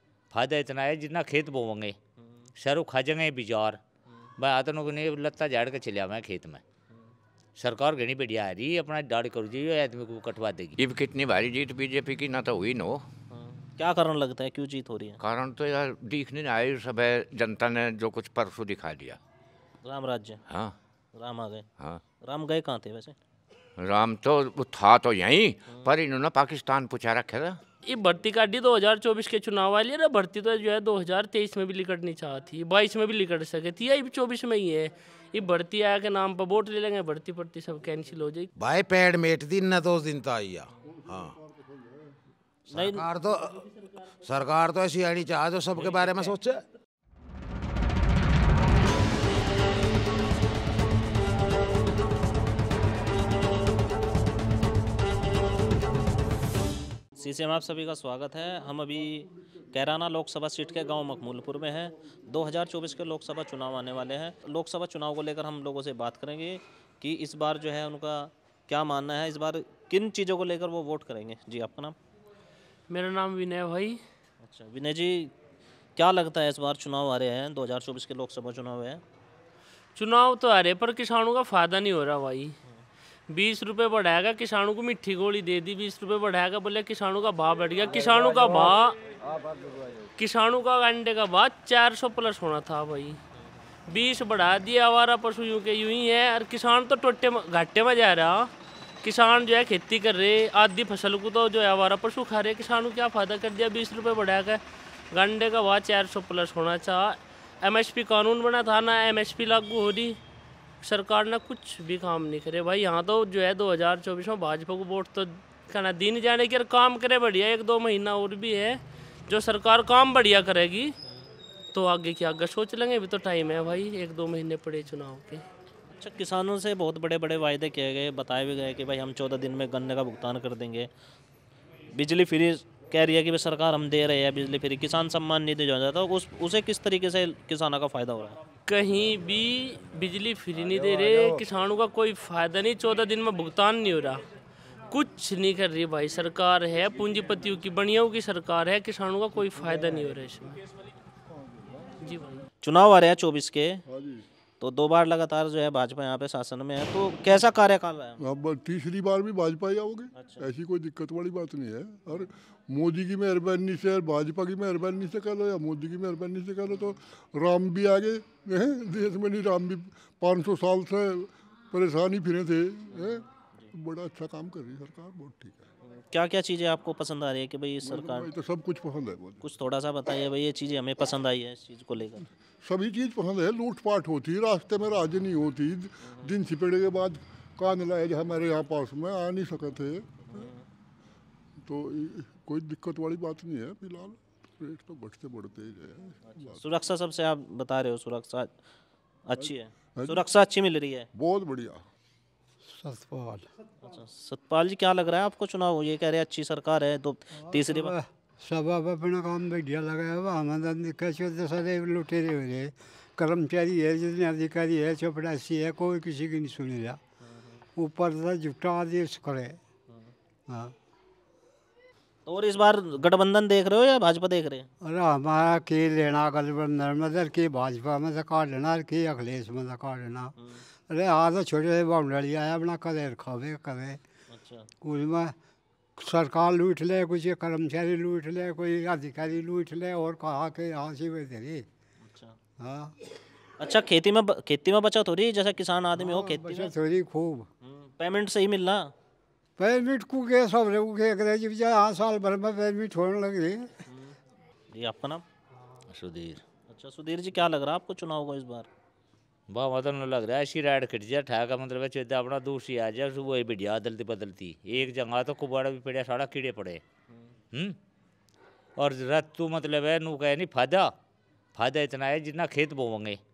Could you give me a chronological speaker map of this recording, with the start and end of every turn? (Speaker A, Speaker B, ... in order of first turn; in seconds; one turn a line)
Speaker A: 0.3-1.9
Speaker A: 2.6-3.8
Speaker A: 4.4-6.6
Speaker A: 7.6-10.8
Speaker B: 10.8-13.0
Speaker C: 13.3-15.2
Speaker B: 15.2-19.2
Speaker C: 19.8-20.4
Speaker B: 20.5-20.7
Speaker C: 21.2-21.6
Speaker C: 22.2-23.1
Speaker B: 23.8-27.6
Speaker D: 27.8-38.5
Speaker E: 38.6-41.4
Speaker F: 40.9-42.2
Speaker E: 42.7-46.6
Speaker C: 42.7-43.0
Speaker C: 57.1-72.0
Speaker D: 72.9-74.0
Speaker C: 74.4-75.3
Speaker C: 76.0-79.0
Speaker D: 80.0-82.5
Speaker D: 83.3-89.0
Speaker D: 90.2-93.2
Speaker D: 93.9-98.5
Speaker D: 99.0-104.6
Speaker D: 105.1-110.2
Speaker D: 110.8-120.9
Speaker D: 121.7-125.4
Speaker C: 125.9-130.9
Speaker C: 131.9-138.4
Speaker D: 138.7-144.2
Speaker D: 144.9-150.6
Speaker F: 151.6-151.9
Speaker D: 152.0-152.4
Speaker C: 152.6-153.8
Speaker F: 153.9-154.2
Speaker C: 154.6-158.2
Speaker F: 158.2-175.7
Speaker C: 160.2-160.5
Speaker C: 172.9-173.7
Speaker C: 175.9-178.3
Speaker F: 177.8-179.4
Speaker C: 179.4-182.3
Speaker F: 182.6-190.5
Speaker C: 186.0-186.3
Speaker C: 190.3-190.6
Speaker F: 191.7-196.6
Speaker C: 196.4-198.5
Speaker C: 199.2-201.1
Speaker F: 199.4-200.2
Speaker F: 201.1-201.8
Speaker G: 202.7-203.4
Speaker C: 203.8-207.9
Speaker G: 207.5-217.0
Speaker G: 217.8-219.6
Speaker C: 222.2-224.7
Speaker G: 224.8-230.3
Speaker G: 230.9-234.0
Speaker C: 234.3-234.7
Speaker G: 234.8-235.3
Speaker G: 236.0-241.6
Speaker C: 242.0-242.3
Speaker G: 242.6-242.9
Speaker C: 243.6-246.7
Speaker G: 246.0-247.5
Speaker C: 247.6-248.9
Speaker G: 249.6-253.7
Speaker C: 254.7-255.2
Speaker A: 255.9-256.4
Speaker C: 256.7-258.7
Speaker A: 259.5-266.8
Speaker A: 268.8-270.9
Speaker A: 271.6-273.2